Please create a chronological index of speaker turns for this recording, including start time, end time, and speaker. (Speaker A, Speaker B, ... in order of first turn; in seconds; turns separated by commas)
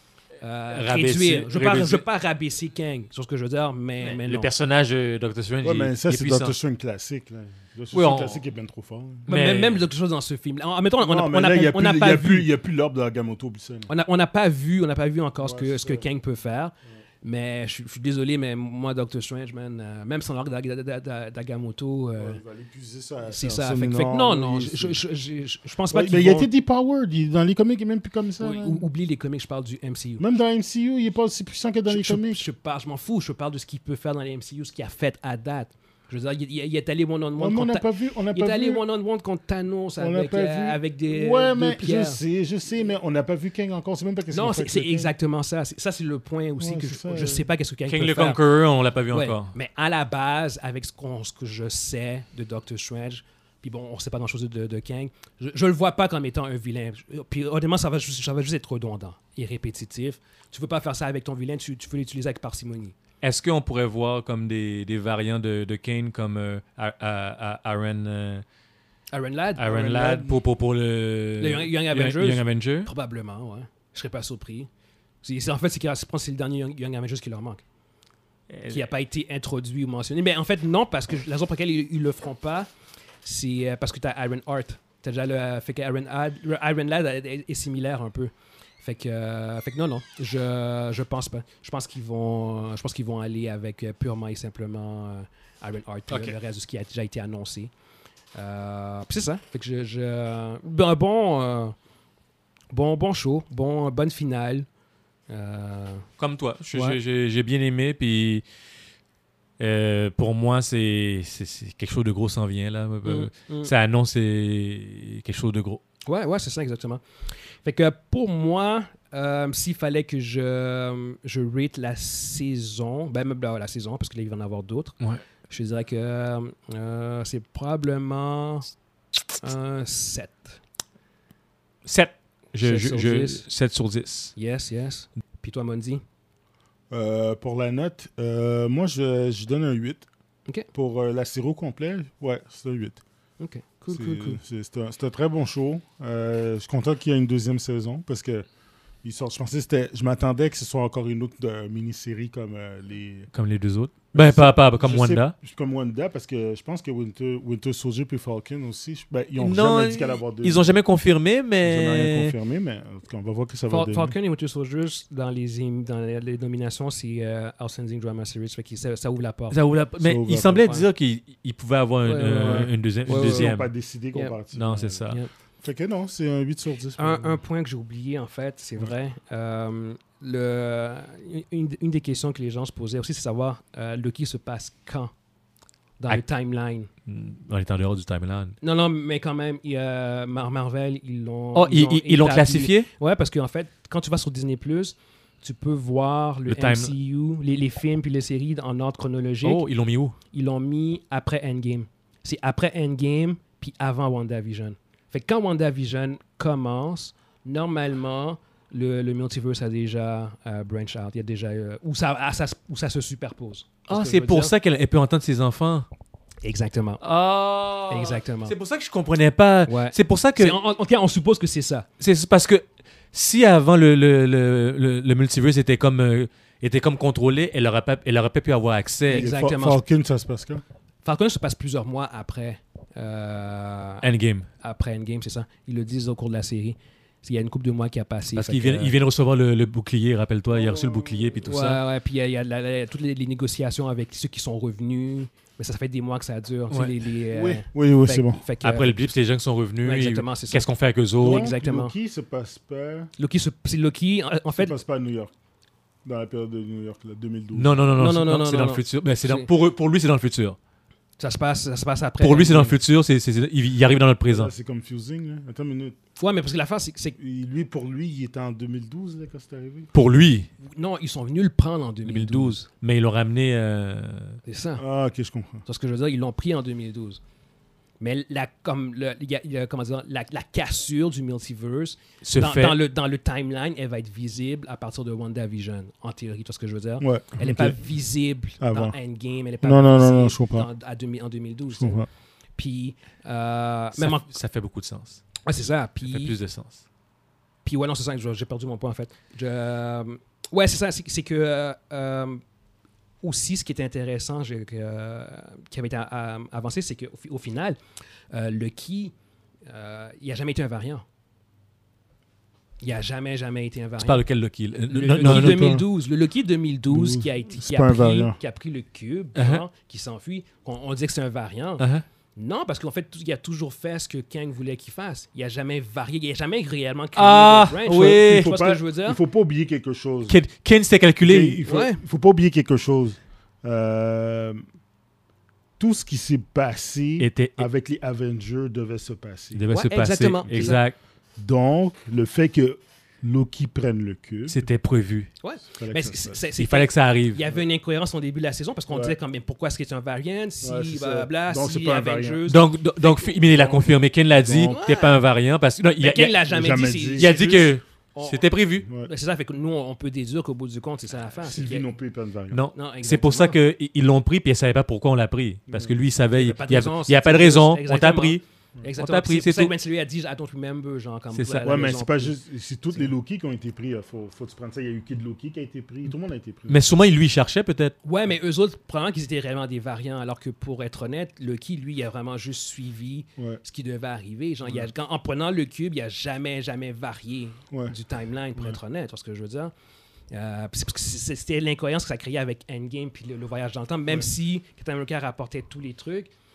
Speaker A: 0.4-4.5, Speaker B: 0.7-2.0, Speaker B: 4.0-6.5, Speaker C: 5.6-9.3, Speaker B: 7.9-8.4, Speaker A: 9.3-12.5, Speaker B: 9.3-9.9, Speaker C: 11.0-13.9, Speaker A: 13.9-22.4, Speaker C: 15.4-16.1, Speaker C: 22.2-25.0, Speaker A: 23.3-26.5, Speaker C: 25.9-28.8, Speaker A: 28.4-30.2, Speaker C: 30.2-32.4, Speaker A: 31.9-42.2, Speaker C: 37.4-38.8, Speaker C: 40.0-45.1, Speaker A: 44.3-48.4, Speaker C: 46.6-47.5, Speaker B: 47.9-49.5, Speaker A: 49.1-62.9, Speaker B: 63.2-68.4, Speaker A: 69.1-70.4, Speaker B: 69.6-72.9, Speaker A: 71.4-74.7, Speaker A: 75.2-77.6, Speaker B: 78.5-78.9, Speaker A: 78.7-82.7, Speaker A: 83.2-97.7, Speaker A: 98.3-101.7, Speaker A: 102.7-104.7, Speaker A: 105.3-106.0, Speaker B: 106.2-108.4, Speaker A: 106.7-107.0, Speaker B: 109.6-115.8, Speaker A: 113.0-113.7, Speaker A: 116.0-125.0, Speaker A: 125.5-128.7, Speaker A: 129.4-130.6, Speaker B: 131.8-134.3, Speaker A: 132.6-133.4, Speaker A: 134.3-136.0, Speaker C: 136.9-140.1, Speaker C: 140.7-143.0, Speaker A: 143.4-144.4, Speaker C: 143.9-148.4, Speaker C: 149.0-153.3, Speaker B: 153.3-155.3, Speaker C: 154.1-160.8, Speaker B: 159.4-162.3, Speaker C: 161.6-164.1, Speaker A: 163.7-169.6, Speaker B: 169.5-173.7, Speaker C: 170.0-170.8, Speaker A: 172.0-173.5, Speaker C: 172.3-175.1, Speaker B: 174.5-175.2, Speaker C: 175.6-177.4, Speaker A: 177.0-185.1, Speaker A: 186.0-186.9, Speaker B: 187.1-188.6, Speaker A: 188.6-199.6, Speaker B: 191.5-192.9, Speaker B: 196.5-196.9, Speaker B: 199.4-200.2, Speaker A: 200.3-214.5, Speaker B: 213.9-215.9, Speaker A: 216.4-217.0, Speaker B: 217.0-220.6, Speaker A: 217.9-218.5, Speaker A: 219.7-221.9, Speaker B: 222.0-229.3, Speaker A: 229.1-229.8, Speaker C: 229.1-230.6, Speaker A: 231.0-234.1, Speaker B: 234.0-234.5, Speaker A: 234.6-239.0, Speaker B: 238.3-241.8, Speaker C: 240.5-241.4, Speaker A: 241.4-249.1, Speaker C: 247.3-248.4, Speaker B: 248.6-251.5, Speaker A: 249.8-250.6, Speaker A: 251.2-251.9, Speaker C: 251.2-253.1, Speaker A: 253.2-254.8, Speaker C: 254.5-255.3, Speaker C: 256.0-257.8, Speaker B: 257.5-260.6, Speaker A: 257.9-259.5, Speaker A: 261.2-262.8, Speaker B: 262.2-264.5, Speaker C: 264.3-265.9, Speaker A: 266.2-267.2, Speaker C: 267.2-269.9, Speaker B: 269.9-270.5, Speaker A: 270.6-272.6, Speaker B: 272.0-274.4, Speaker A: 274.4-274.8, Speaker C: 274.8-275.6, Speaker A: 275.6-277.2, Speaker A: 278.0-292.0, Speaker B: 282.2-282.8, Speaker C: 287.0-287.8, Speaker C: 288.6-288.9, Speaker C: 289.6-290.7, Speaker C: 291.7-292.1, Speaker A: 292.6-294.2, Speaker B: 293.9-295.2, Speaker A: 295.4-296.4, Speaker B: 296.1-296.8, Speaker A: 297.6-302.4, Speaker A: 303.2-307.8, Speaker A: 308.3-309.1, Speaker A: 309.6-311.0, Speaker A: 312.8-314.2, Speaker B: 314.0-315.8, Speaker A: 314.9-329.2, Speaker C: 315.2-315.9, Speaker C: 316.9-318.4, Speaker B: 319.4-319.6, Speaker B: 321.8-322.0, Speaker B: 327.1-328.5, Speaker C: 327.9-330.4, Speaker B: 330.3-331.6, Speaker C: 331.2-334.6, Speaker A: 331.6-332.0, Speaker C: 335.8-339.6, Speaker B: 337.2-337.7, Speaker B: 339.5-340.9, Speaker A: 339.7-340.8, Speaker C: 341.4-344.7, Speaker B: 344.5-345.3, Speaker A: 345.4-353.3, Speaker C: 345.7-346.4, Speaker B: 346.5-347.4, Speaker C: 348.9-349.1, Speaker C: 350.6-352.4, Speaker B: 352.5-356.5, Speaker C: 353.3-354.8, Speaker A: 354.5-355.2, Speaker A: 356.0-361.9, Speaker C: 356.5-357.7, Speaker B: 357.1-358.9, Speaker C: 361.4-362.6, Speaker B: 362.5-368.4, Speaker A: 362.7-363.6, Speaker C: 365.7-365.9, Speaker A: 366.3-372.4, Speaker B: 369.0-369.7, Speaker B: 371.3-371.8, Speaker C: 371.6-376.8, Speaker B: 376.7-377.9, Speaker A: 378.0-389.7, Speaker A: 390.3-396.3